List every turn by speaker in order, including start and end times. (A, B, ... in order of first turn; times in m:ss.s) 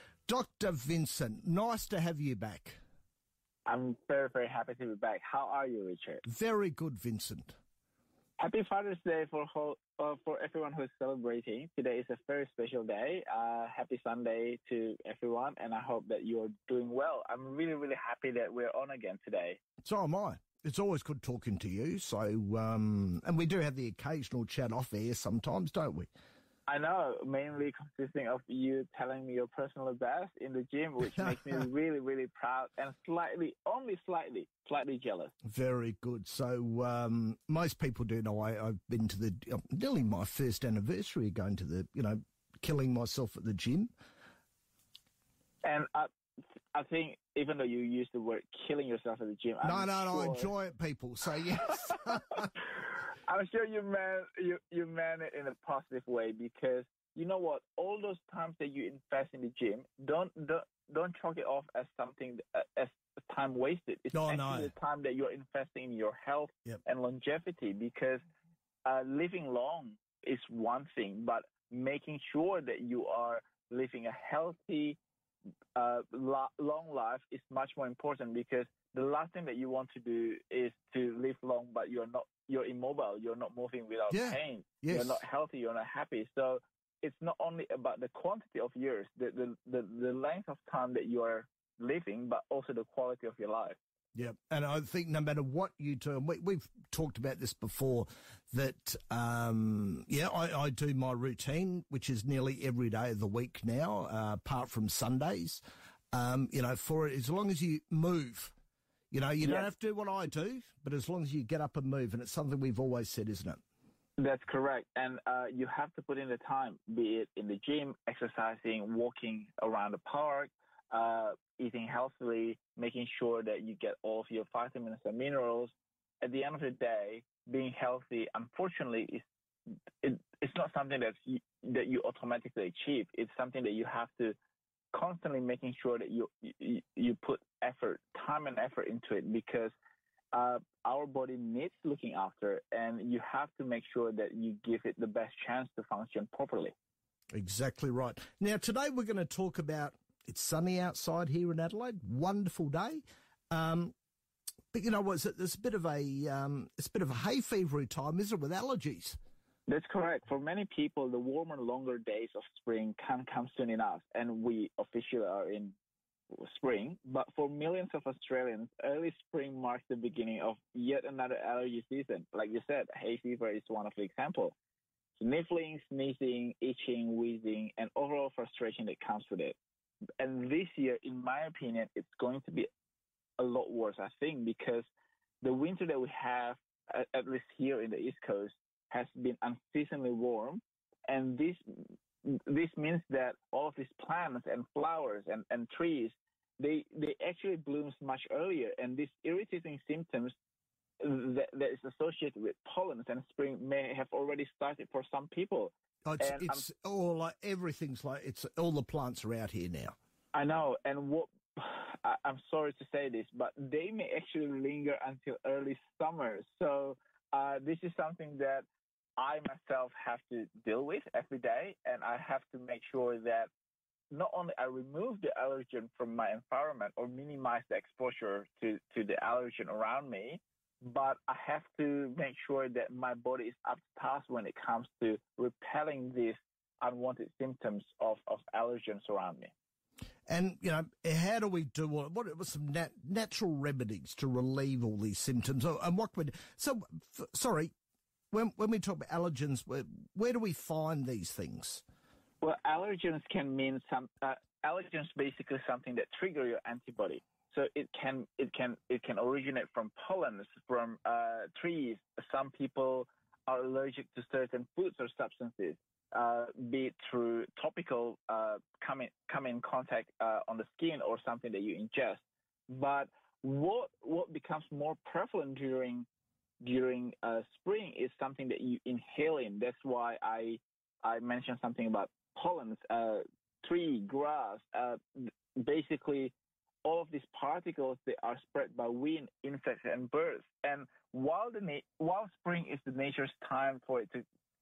0:00.3-0:02.8 A
0:03.7-0:06.2 B
0:06.2-0:07.6 A
0:08.4-0:19.6 B
0:19.8-0:26.1 A
0:26.7-0:35.3 B
0:35.4-0:43.9 A
0:45.6-0:46.1 B
0:46.7-0:50.5 B
0:49.6-0:52.5 A
0:51.6-1:08.2 B
1:04.1-1:04.7 A
1:08.8-1:15.0 B
1:15.8-1:33.8 B
1:24.1-1:25.2 A
1:34.2-1:48.5 A
1:49.1-1:53.6 A
1:49.4-1:49.7 B
1:54.2-2:09.2 B
2:10.0-2:14.4 B
2:14.9-2:19.7 B
2:20.3-2:26.7 B
2:27.3-2:33.9 A
2:34.7-2:39.2 A
2:39.7-2:45.8 B
2:46.3-2:54.6 B
2:55.2-2:59.6 B
3:00.2-3:02.7 B
3:03.4-3:04.9 B
3:05.4-3:20.4 B
3:21.0-3:26.6 B
3:26.1-3:30.0 A
3:30.3-3:38.7 B
3:39.2-3:43.5 B
3:44.1-3:59.5 B
4:00.3-4:07.7 A
4:08.3-4:11.8 A
4:12.4-4:36.1 B
4:36.6-4:46.3 B
4:46.8-4:54.2 B